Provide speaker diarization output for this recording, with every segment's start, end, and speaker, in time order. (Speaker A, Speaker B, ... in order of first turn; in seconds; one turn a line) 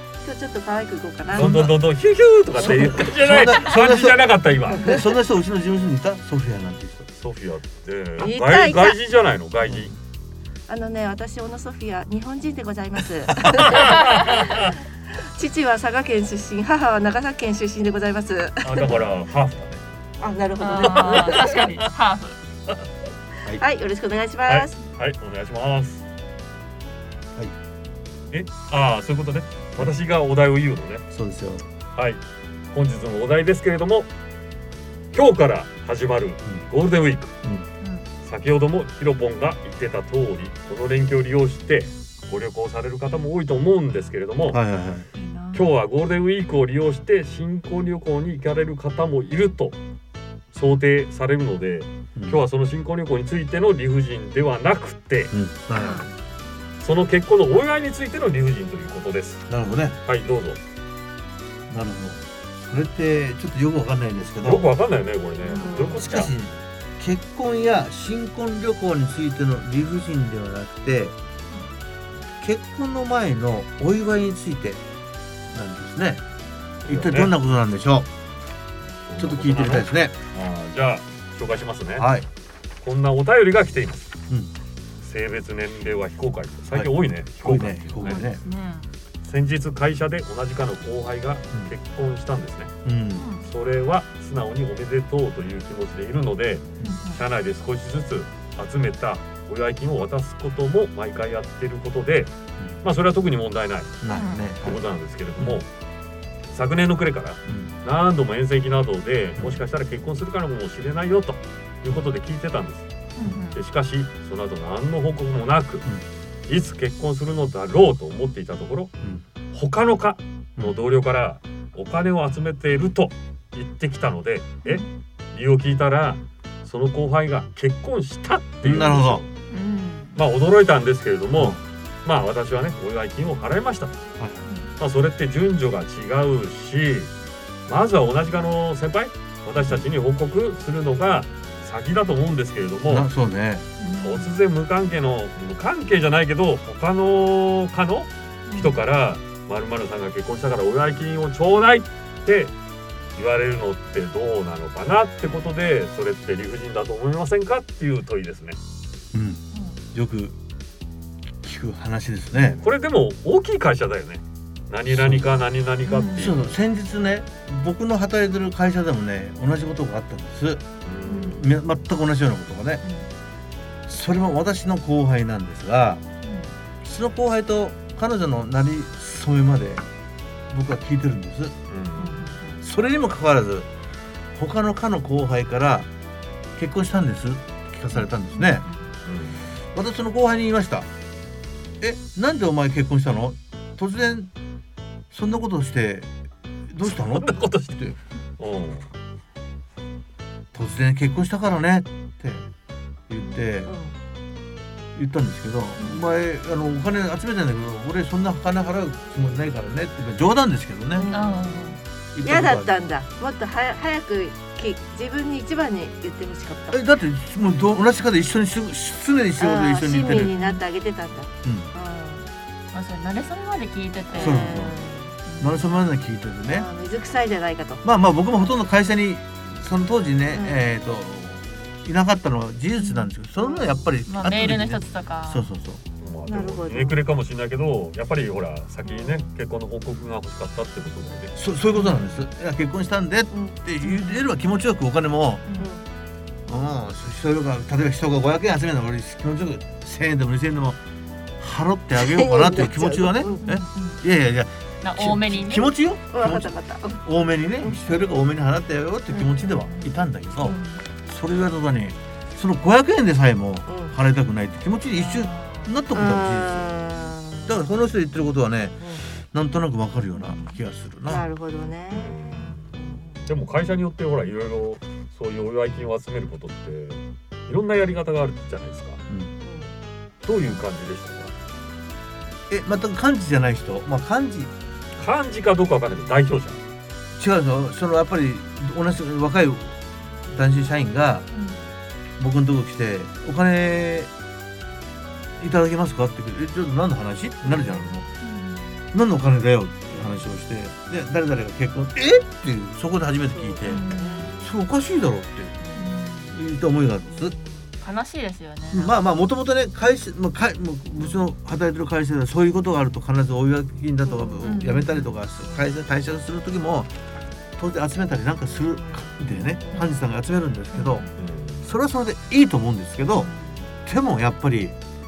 Speaker A: 0.2-1.7
Speaker B: 1.3-1.8
Speaker C: 1.3-4.9
Speaker B: 2.6-7.1
Speaker C: 7.2-9.9
Speaker A: 8.2-9.0
Speaker A: 10.7-19.0
Speaker C: 13.7-14.7
Speaker C: 18.6-19.8
Speaker A: 20.2-21.6
Speaker D: 20.6-22.4
Speaker C: 20.8-21.8
Speaker A: 23.6-24.7
Speaker C: 24.5-26.0
Speaker C: 28.3-31.0
Speaker B: 31.1-31.6
Speaker C: 32.7-34.1
Speaker C: 35.1-37.3
Speaker D: 37.8-38.1
Speaker C: 38.2-44.6
Speaker B: 44.5-45.1
Speaker D: 45.1-45.7
Speaker C: 45.5-49.8
Speaker C: 50.5-55.3
Speaker B: 52.1-52.4
Speaker B: 55.3-56.0
Speaker A: 55.8-56.1
Speaker C: 56.8-59.5
Speaker B: 59.5-60.0
Speaker C: 60.0-60.6
Speaker B: 61.7-64.7
Speaker C: 64.4-66.3
Speaker A: 65.4-66.1
Speaker B: 65.8-71.2
Speaker B: 72.4-74.8
Speaker B: 75.5-76.2
Speaker C: 76.8-77.3
Speaker B: 76.8-78.1
Speaker C: 79.1-82.1
Speaker B: 79.2-80.1
Speaker B: 82.0-82.3
Speaker C: 82.8-84.1
Speaker C: 85.0-88.2
Speaker B: 86.7-88.4
Speaker D: 88.0-88.9
Speaker C: 89.2-92.7
Speaker B: 92.8-93.3
Speaker D: 93.1-93.5
Speaker C: 93.4-102.3
Speaker D: 96.8-97.2
Speaker C: 102.8-105.7
Speaker B: 104.0-104.8
Speaker D: 104.1-104.4
Speaker C: 106.5-112.9
Speaker B: 107.5-107.7
Speaker D: 113.2-113.6
Speaker C: 113.5-115.8
Speaker C: 116.5-118.9
Speaker C: 119.5-129.3
Speaker B: 128.6-129.2
Speaker D: 129.5-130.2
Speaker C: 130.1-133.9
Speaker B: 134.2-134.5
Speaker C: 134.8-137.1
Speaker C: 137.7-143.1
Speaker B: 139.6-139.8
Speaker B: 142.8-143.7
Speaker D: 143.8-144.3
Speaker C: 143.9-152.5
Speaker D: 148.5-148.8
Speaker C: 153.2-158.6
Speaker B: 159.1-159.4
Speaker D: 159.5-159.8
Speaker B: 159.9-160.3
Speaker B: 161.4-162.6
Speaker C: 162.4-166.5
Speaker B: 164.9-165.4
Speaker D: 165.8-166.3
Speaker B: 166.1-170.6
Speaker C: 170.8-171.4
Speaker D: 171.0-171.5
Speaker B: 171.2-172.8
Speaker D: 172.8-173.1
Speaker B: 173.8-176.0
Speaker D: 176.2-176.6
Speaker B: 176.8-179.8
Speaker B: 180.5-181.5
Speaker C: 181.7-182.2
Speaker D: 181.9-182.6
Speaker B: 182.6-183.7
Speaker B: 184.3-185.9
Speaker B: 186.6-188.7
Speaker D: 187.9-188.9
Speaker C: 189.1-189.5
Speaker B: 189.7-190.9
Speaker B: 191.8-194.3
Speaker B: 195.1-196.1
Speaker B: 196.7-197.9
Speaker C: 196.8-197.8
Speaker C: 198.4-198.9
Speaker B: 200.5-202.5
Speaker B: 203.1-203.7
Speaker A: 203.2-203.9
Speaker B: 204.9-211.1
Speaker D: 205.8-206.0
Speaker A: 210.9-216.9
Speaker D: 211.1-211.8
Speaker B: 212.1-212.7
Speaker B: 216.7-220.3
Speaker A: 219.4-222.3
Speaker D: 220.1-220.6
Speaker B: 221.4-221.7
Speaker D: 222.7-224.7
Speaker A: 224.1-225.2
Speaker B: 224.2-224.7
Speaker D: 225.2-225.7
Speaker B: 225.4-226.7
Speaker A: 226.5-227.8
Speaker B: 227.8-235.8
Speaker A: 230.3-230.7
Speaker D: 232.8-233.1
Speaker A: 233.4-233.8
Speaker D: 234.1-235.4
Speaker C: 236.0-241.3
Speaker A: 236.3-237.0
Speaker A: 238.8-239.3
Speaker B: 241.3-245.4
Speaker D: 241.7-242.0
Speaker A: 243.3-243.6
Speaker D: 243.8-244.2
Speaker D: 245.4-245.7
Speaker A: 245.6-245.8
Speaker B: 246.5-250.8
Speaker B: 251.4-266.7
Speaker A: 252.0-253.4
Speaker D: 253.4-254.0
Speaker D: 254.8-255.7
Speaker A: 256.1-257.0
Speaker A: 259.1-259.3
Speaker D: 259.4-260.8
Speaker A: 263.7-263.9
Speaker D: 264.9-265.8
Speaker A: 265.9-267.7
Speaker B: 267.4-271.2
Speaker D: 270.2-270.5
Speaker A: 271.1-273.3
Speaker C: 271.9-279.0
Speaker B: 279.1-279.3
Speaker A: 279.4-279.7
Speaker C: 280.2-281.3
Speaker B: 282.5-284.5
Speaker C: 284.9-286.6
Speaker B: 287.1-291.3
Speaker D: 291.3-291.6
Speaker B: 292.2-294.1
Speaker B: 295.4-298.1
Speaker A: 297.4-297.8
Speaker D: 298.2-298.8
Speaker B: 298.9-303.8
Speaker A: 299.9-300.2
Speaker A: 303.3-304.5
Speaker D: 303.6-304.3
Speaker B: 304.4-305.6
Speaker A: 305.6-306.0
Speaker D: 305.8-306.4
Speaker B: 306.3-307.4
Speaker A: 307.0-307.8
Speaker D: 307.8-308.9
Speaker B: 308.7-316.9
Speaker A: 314.1-314.4
Speaker D: 314.4-315.6
Speaker B: 317.6-321.1
Speaker A: 318.7-319.9
Speaker D: 319.7-320.0
Speaker D: 320.7-321.2
Speaker C: 321.2-321.6
Speaker B: 321.6-323.3
Speaker D: 323.1-323.7
Speaker B: 323.8-324.8